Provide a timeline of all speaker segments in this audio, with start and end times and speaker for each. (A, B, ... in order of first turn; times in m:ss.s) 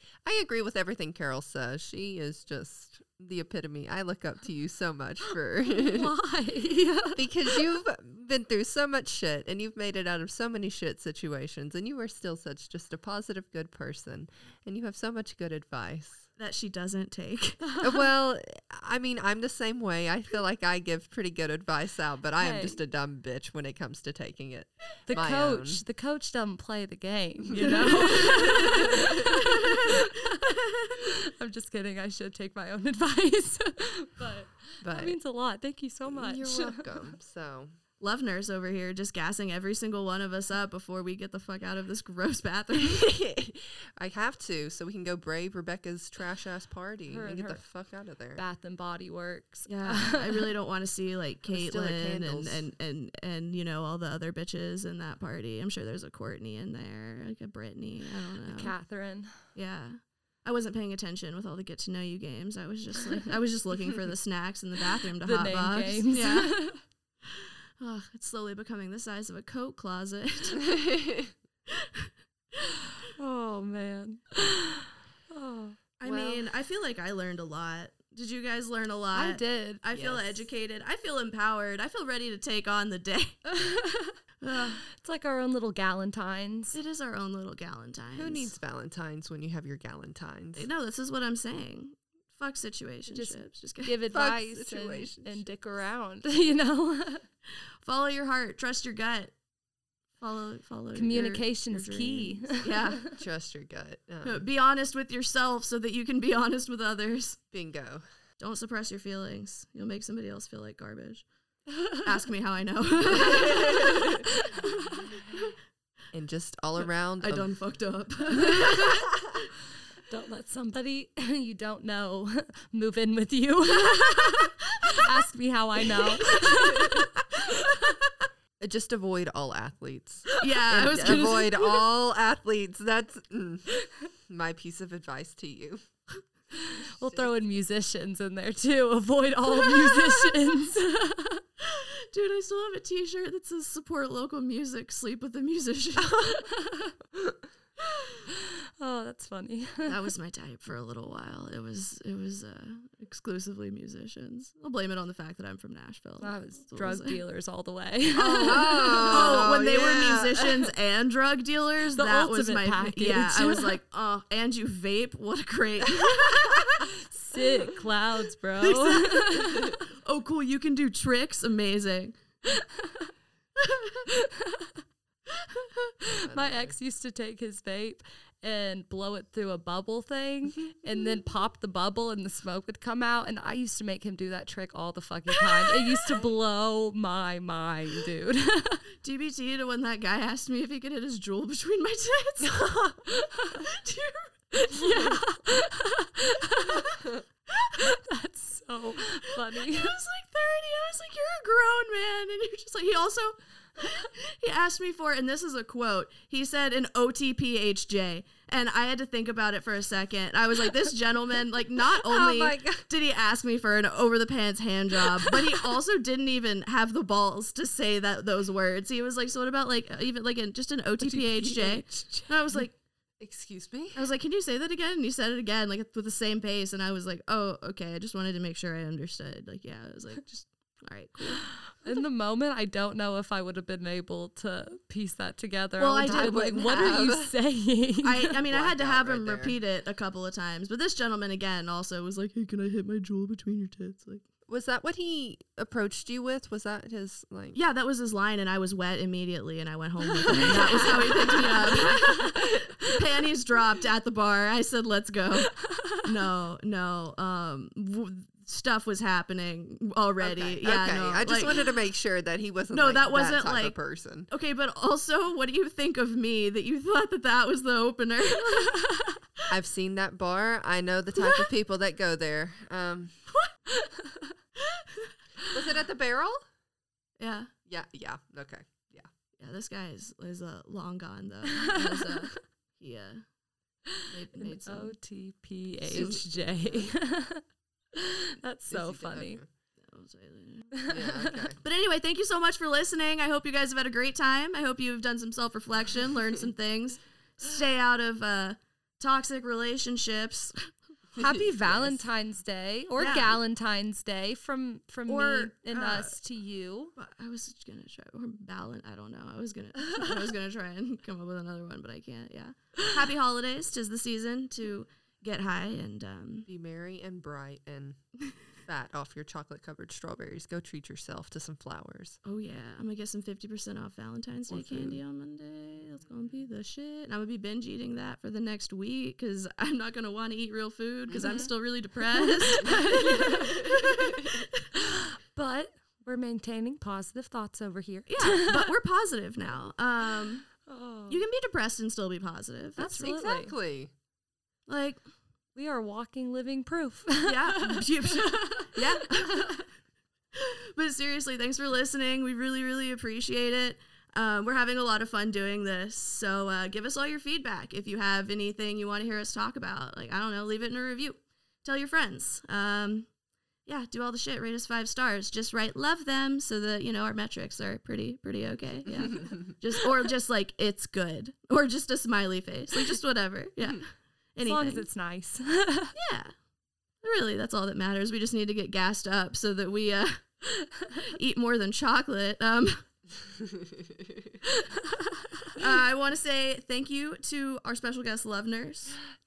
0:00.2-0:06.1 A
0:05.8-0:07.7 B
0:07.1-0:16.2 A
0:16.4-0:17.6 C
0:17.8-0:25.8 A
0:22.4-0:22.8 B
0:25.1-0:37.1 B
0:27.5-0:30.9 C
0:27.6-0:29.2 A
0:34.8-0:35.2 A
0:36.1-0:37.7 A
0:38.0-0:43.1 C
0:42.8-0:48.4 A
0:47.1-0:47.6 B
0:48.3-0:50.5 B
0:49.7-0:58.7 C
0:51.5-0:52.6 A
0:58.4-0:59.4 B
0:59.5-1:06.6 C
1:05.2-1:06.8 B
1:07.4-1:10.7 C
1:10.7-1:11.3 A
1:11.7-1:12.1 C
1:13.2-1:16.4 B
1:16.0-1:23.4 C
1:19.1-1:19.8 B
1:19.9-1:20.4 A
1:23.5-1:24.2 B
1:24.4-1:24.8 C
1:24.9-1:26.8 B
1:26.7-1:28.5 C
1:28.2-1:30.7 A
1:30.6-1:33.9 C
1:33.1-1:37.2 B
1:34.1-1:35.4 A
1:37.8-1:39.3 C
1:40.2-1:43.1 C
1:40.9-1:43.1 B
1:43.1-1:44.4 A
1:44.2-1:47.4 C
1:47.5-1:48.0 A
1:48.4-1:51.2 C
1:52.0-1:54.3 C
1:54.5-1:54.9 B
1:56.1-1:57.5 A
1:57.2-1:59.1 C
2:00.1-2:07.1 B
2:06.0-2:07.5 C
2:08.6-2:15.8 A
2:10.4-2:11.7 C
2:16.5-2:21.4 B
2:19.7-2:20.1 C
2:21.6-2:26.4 C
2:26.0-2:26.4 A
2:28.8-2:30.0 B
2:29.8-2:37.2 C
2:36.2-2:39.4 B
2:38.2-2:46.9 C
2:38.4-2:40.7 A
2:41.9-2:43.8 B
2:46.0-2:49.8 B
2:48.6-2:52.2 C
2:52.5-2:53.1 B
2:53.6-2:54.1 C
2:54.1-2:54.8 B
2:56.0-3:08.8 B
2:56.2-2:56.8 A
3:09.0-3:12.7 C
3:12.4-3:13.0 A
3:13.1-3:13.6 B
3:13.6-3:15.2 C
3:14.5-3:16.9 B
3:17.5-3:18.0 C
3:17.8-3:20.0 B
3:19.4-3:42.8 C
3:31.9-3:32.9 A
3:41.0-3:42.3 B
3:43.2-3:44.1 A
3:43.9-3:51.4 C
3:51.8-3:58.4 B
3:55.8-3:56.5 C
3:56.0-3:57.3 A
3:58.0-4:04.2 C
3:58.5-3:59.6 A
4:04.5-4:07.6 A
4:07.5-4:21.6 C
4:10.3-4:12.3 B
4:10.3-4:11.8 A
4:15.5-4:16.0 B
4:20.2-4:24.3 A
4:22.7-4:28.8 C
4:29.5-4:33.1 A
4:33.9-4:34.2 B
4:34.7-4:35.1 C
4:35.5-4:36.4 A
4:37.2-4:37.5 C
4:37.7-4:39.1 A
4:39.4-4:43.2 C
4:41.5-4:42.3 B
4:44.1-4:45.0 C
4:44.5-4:49.4 B
4:45.9-4:46.3 C
4:45.9-4:46.9 A
4:48.7-4:49.5 A
4:49.8-4:50.8 C
4:50.8-4:51.4 B
4:50.9-4:51.6 A
4:51.6-5:00.7 C
5:01.1-5:02.0 A
5:01.2-5:06.9 B
5:03.0-5:03.4 C
5:05.1-5:06.2 C
5:07.0-5:16.5 C
5:16.5-5:18.0 A
5:18.6-5:22.2 A
5:22.2-5:34.6 C
5:24.5-5:25.0 A
5:26.1-5:26.4 A
5:31.1-5:31.3 A
5:31.2-5:31.5 B
5:32.1-5:33.8 B
5:34.7-5:38.6 B
5:38.1-5:40.6 C
5:40.6-5:41.2 B
5:41.1-5:43.2 C
5:42.8-5:43.5 B
5:42.9-5:43.9 A
5:44.7-5:45.0 C
5:45.6-5:49.6 B
5:47.2-5:49.6 C
5:50.3-6:03.1 C
6:03.6-6:14.8 C
6:08.9-6:09.4 A
6:14.4-6:15.9 B
6:15.9-6:16.3 C
6:17.0-6:20.2 C
6:20.9-6:22.8 C
6:23.8-6:24.1 A
6:24.9-6:25.2 B
6:25.5-6:29.0 C